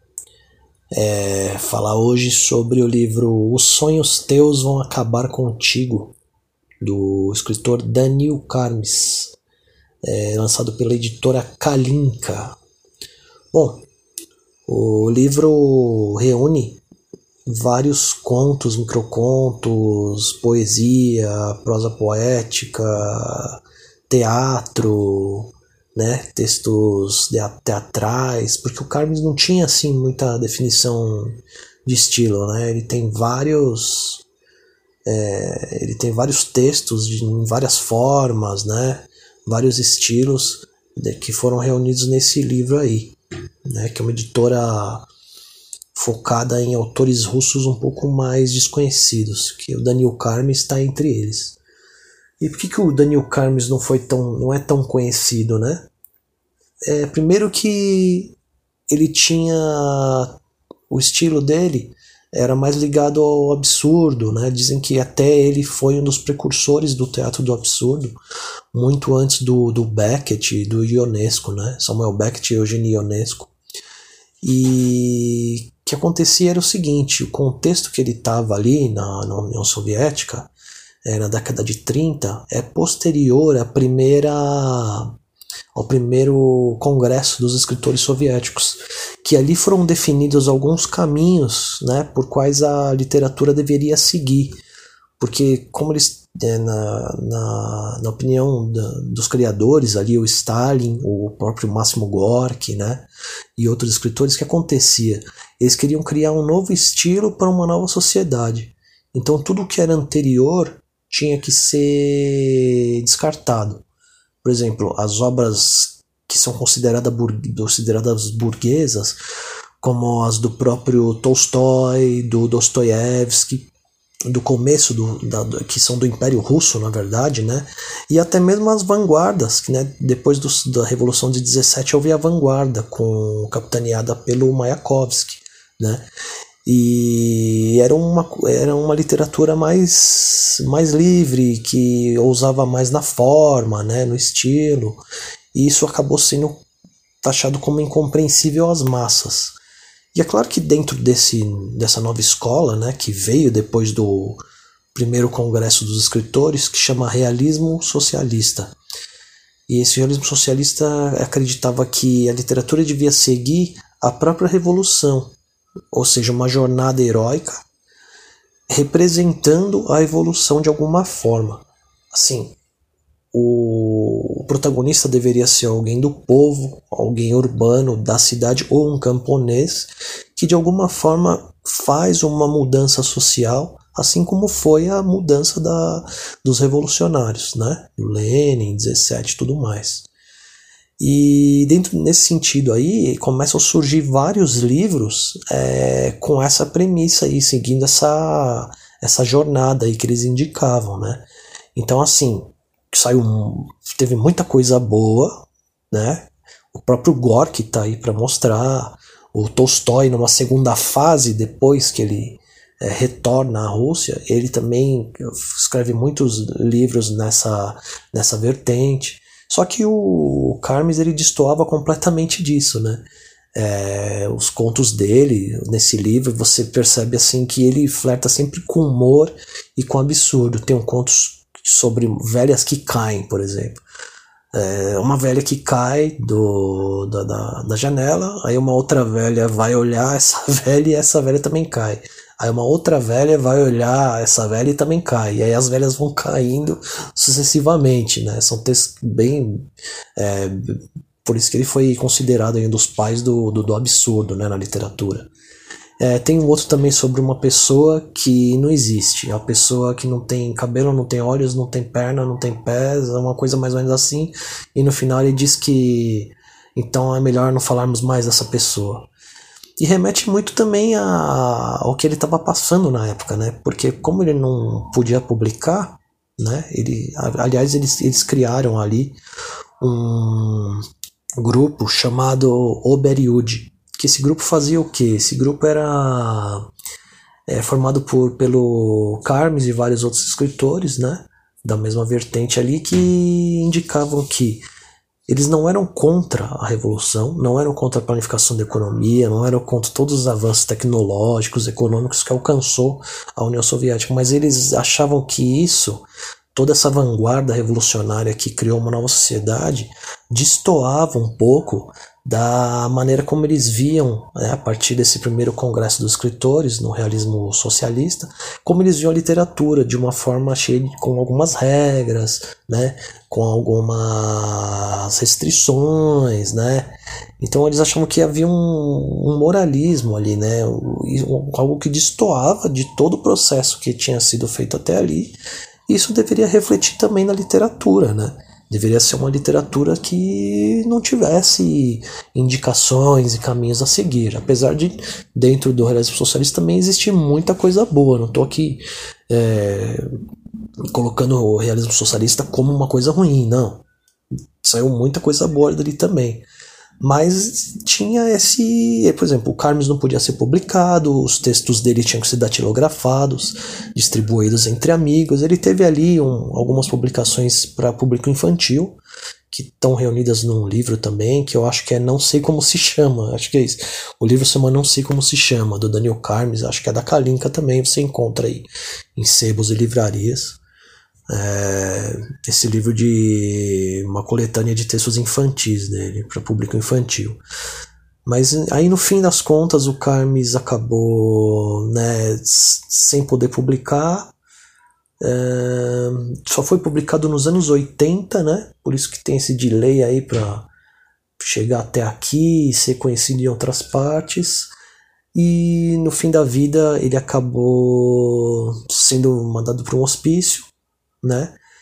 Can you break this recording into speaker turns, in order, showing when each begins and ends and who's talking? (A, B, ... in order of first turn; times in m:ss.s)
0:00.9-0:06.1 A
0:06.8-0:09.4 A
0:10.0-0:12.6 A
0:13.5-0:13.9 A
0:14.7-0:16.8 A
0:17.4-0:34.2 A
0:35.0-0:45.1 A
0:45.9-0:51.6 A
0:52.4-0:55.9 A
0:56.9-0:58.4 A
0:58.9-1:00.4 A
1:00.9-1:08.2 A
1:08.7-1:13.5 A
1:14.4-1:20.5 A
1:21.0-1:25.1 A
1:25.8-1:34.6 A
1:35.2-1:53.8 A
1:54.4-1:59.2 A
1:59.8-2:03.7 A
2:04.3-2:16.1 A
2:16.6-2:25.0 A
2:25.5-2:26.6 A
2:27.2-2:29.6 A
2:30.1-2:34.4 A
2:34.9-2:38.8 A
2:39.7-2:45.3 A
2:45.9-2:47.6 A
2:48.7-2:52.6 A
2:53.3-3:10.1 A
3:11.0-3:53.8 A
3:54.5-4:15.3 A
4:16.0-4:29.1 A
4:29.8-4:39.2 A
4:39.8-4:40.8 A
4:41.4-4:46.7 A
4:47.5-4:54.6 A
4:55.3-5:50.0 A
5:50.9-5:53.8 A
5:54.6-5:56.4 A
5:57.0-6:09.0 A
6:09.5-6:20.6 A
6:21.3-6:27.4 A
6:28.2-6:34.3 A
6:35.2-6:40.7 A
6:41.4-6:44.7 A
6:45.3-6:50.7 A
6:51.2-6:51.6 A